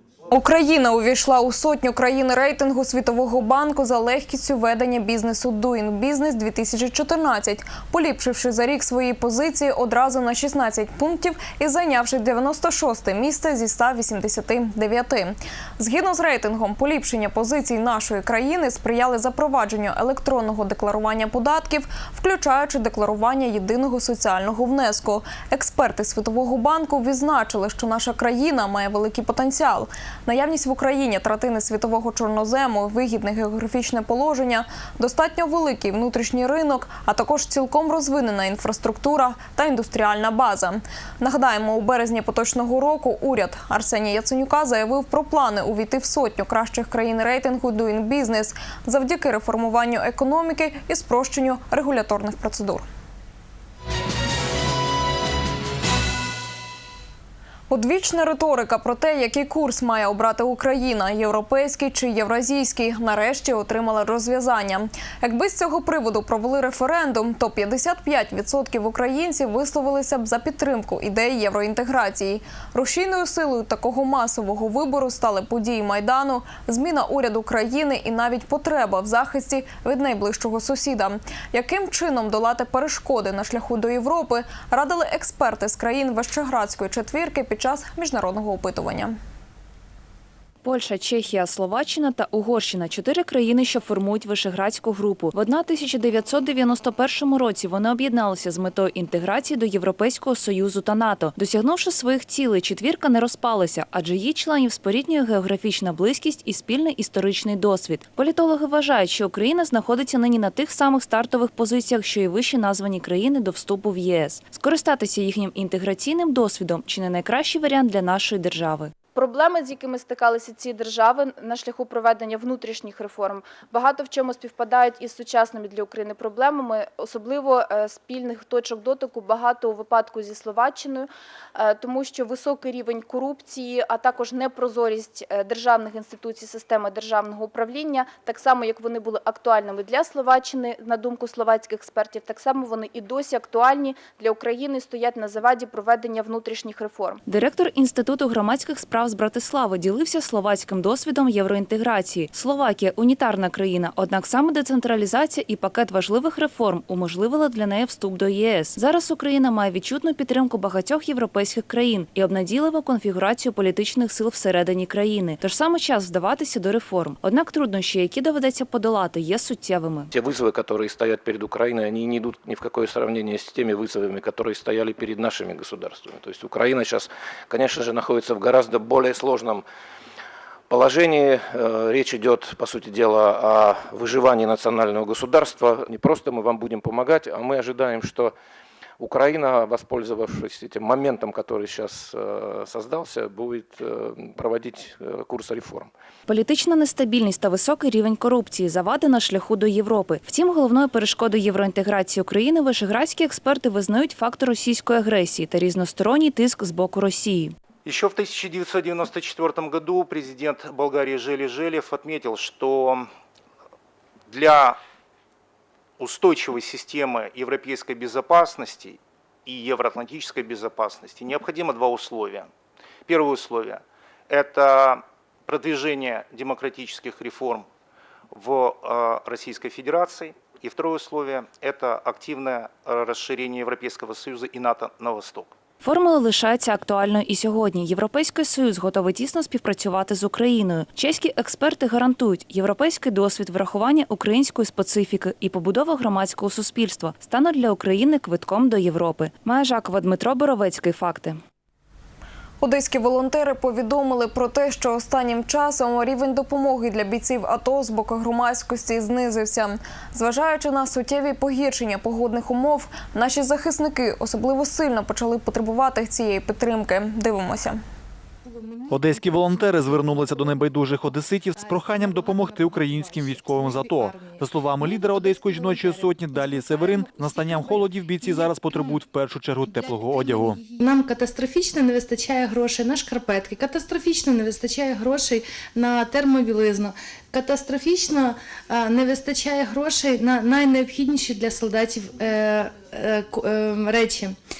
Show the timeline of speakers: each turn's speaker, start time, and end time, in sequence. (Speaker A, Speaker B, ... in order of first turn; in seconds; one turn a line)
Speaker A: 0.3-52.9
Speaker A: 57.7-89.2
Speaker B: 90.6-118.9
Speaker C: 119.1-147.2
Speaker B: 147.3-170.1
Speaker D: 170.1-179.6
Speaker D: 180.7-188.3
Speaker D: 189.0-195.9
Speaker B: 196.3-207.5
Speaker E: 207.8-213.1
Speaker E: 214.3-214.8
Speaker E: 216.0-222.5
Speaker E: 223.1-227.7
Speaker E: 228.3-235.5
Speaker B: 235.8-251.4
Speaker A: 252.6-267.8
Speaker F: 268.4-270.9
Speaker G: 268.9-280.6
Speaker F: 271.5-279.0
Speaker F: 280.0-294.4